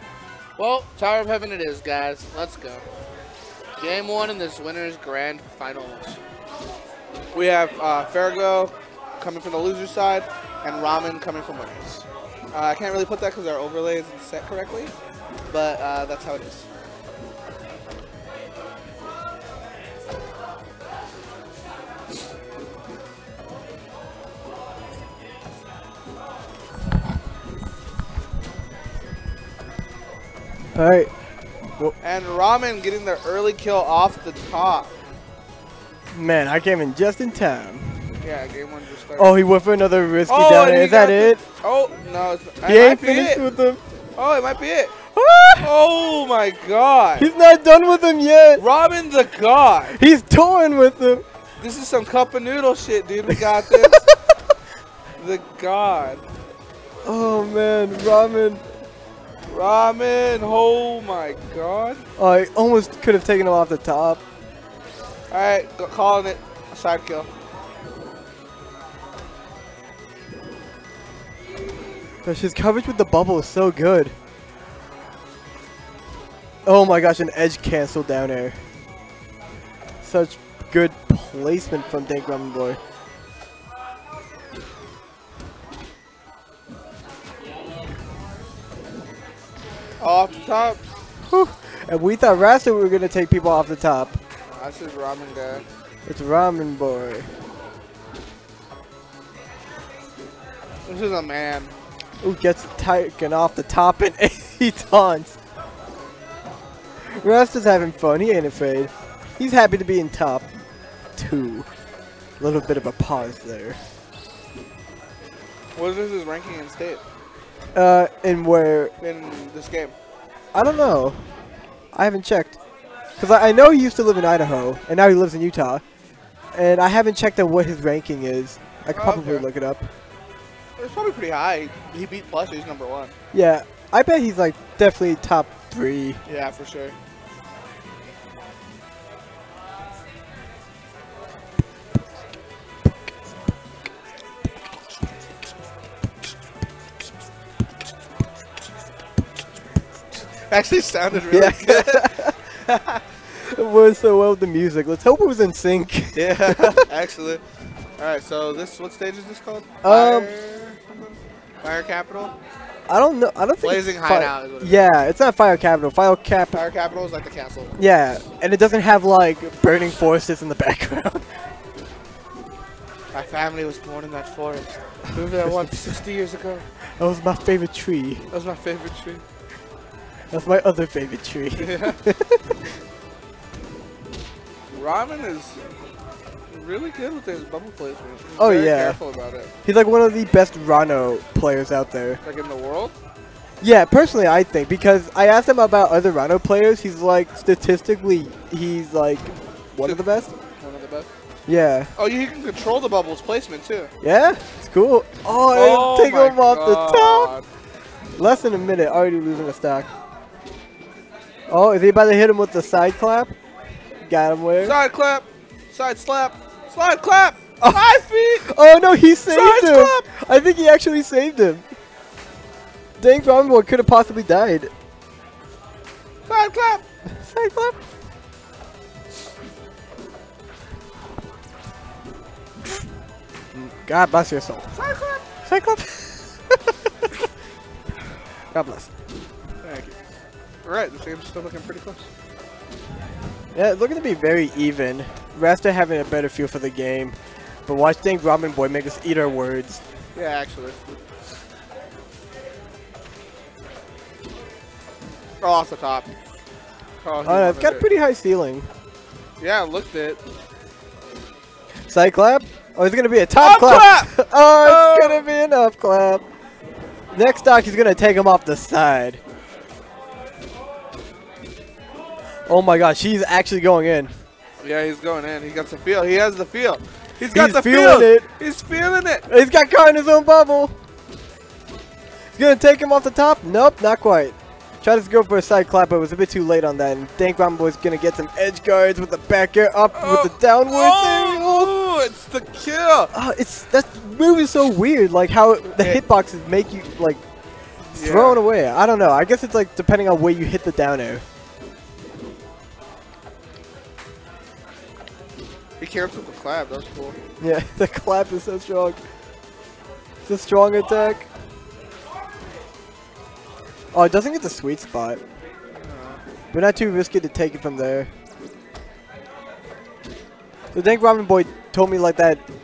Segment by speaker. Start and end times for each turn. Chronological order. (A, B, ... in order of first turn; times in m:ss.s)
0:00.6-0:02.8 A
0:03.8-0:06.2 A
0:07.3-0:14.9 A
0:15.5-0:16.6 A
0:30.7-0:31.1 B
0:32.0-0:34.9 A
0:36.1-0:38.2 B
0:38.2-0:39.4 A
0:39.2-0:41.4 B
0:40.3-0:43.4 A
0:42.6-0:43.8 B
0:44.2-0:44.9 A
0:45.1-0:45.7 B
0:45.6-0:47.3 A
0:47.2-0:48.6 B
0:48.6-0:50.0 A
0:49.9-0:51.2 B
0:51.6-0:54.0 A
0:53.3-0:54.1 B
0:55.2-0:56.2 A
0:57.0-0:58.6 B
0:59.5-1:02.0 A
1:02.2-1:04.2 B
1:05.3-1:07.3 A
1:12.2-1:14.1 B
1:16.6-1:18.6 B
1:20.0-1:22.8 B
1:30.0-1:30.8 A
1:31.3-1:34.2 B
1:34.5-1:35.6 A
1:36.1-1:37.3 B
1:40.8-1:41.7 A
1:42.2-1:45.4 B
1:47.2-1:50.5 B
1:51.2-1:51.7 B
1:52.4-1:53.8 B
1:55.8-1:57.0 A
1:57.7-1:58.9 B
1:59.0-1:59.9 A
2:00.5-2:01.3 B
2:01.9-2:02.6 B
2:03.2-2:05.8 B
2:06.5-2:09.9 B
2:08.9-2:09.4 A
2:10.8-2:13.1 A
2:13.3-2:16.2 B
2:16.3-2:16.9 A
2:30.5-2:32.1 A
2:31.3-2:32.4 B
2:32.7-2:32.9 A
2:33.3-2:36.8 B
2:36.1-2:37.4 A
2:38.0-2:42.3 A
2:39.8-2:40.3 B
2:42.9-2:46.6 B
2:43.6-2:44.9 A
2:46.5-2:47.8 A
2:47.8-2:51.3 B
2:53.1-2:56.6 A
2:57.0-2:58.3 B
2:58.3-2:59.2 A
3:00.3-3:02.4 B
3:01.6-3:02.0 A
3:04.7-3:05.6 A
3:06.5-3:09.5 A
3:08.4-3:09.0 B
3:09.6-3:12.2 B
3:12.2-3:12.9 A
3:13.6-3:20.3 B
3:19.8-3:21.1 A
3:21.5-3:21.9 B
3:22.0-3:23.9 A
3:24.0-3:27.3 B
3:25.5-3:27.4 A
3:28.2-3:29.9 B
3:31.5-3:33.3 B
3:34.0-3:34.8 B
3:34.6-3:38.5 A
3:37.6-3:41.6 B
3:39.3-3:40.0 A
3:43.0-3:44.7 B
3:46.3-3:46.8 A
3:47.2-3:47.8 B
3:53.5-3:54.7 B
3:54.7-3:55.2 A
3:55.4-3:56.6 B
3:58.5-3:58.9 B
3:59.6-4:00.0 A
4:00.6-4:02.1 A
4:03.5-4:09.8 B
4:10.1-4:10.8 A
4:15.4-4:16.1 A
4:17.0-4:17.8 A
4:17.2-4:18.7 B
4:19.4-4:20.2 A
4:21.9-4:26.2 B
4:23.4-4:25.2 A
4:27.1-4:29.2 B
4:32.5-4:34.2 B
4:34.6-4:39.2 A
4:37.3-4:38.3 B
4:39.3-4:40.8 B
4:42.4-4:51.7 B
4:49.9-4:53.1 A
4:53.1-4:57.2 B
4:57.8-5:01.2 B
4:57.9-4:58.4 A
5:05.8-5:07.2 A
5:07.4-5:09.0 B
5:10.2-5:11.3 B
5:13.9-5:15.2 B
5:15.8-5:16.2 A
5:16.5-5:18.1 B
5:20.7-5:22.4 B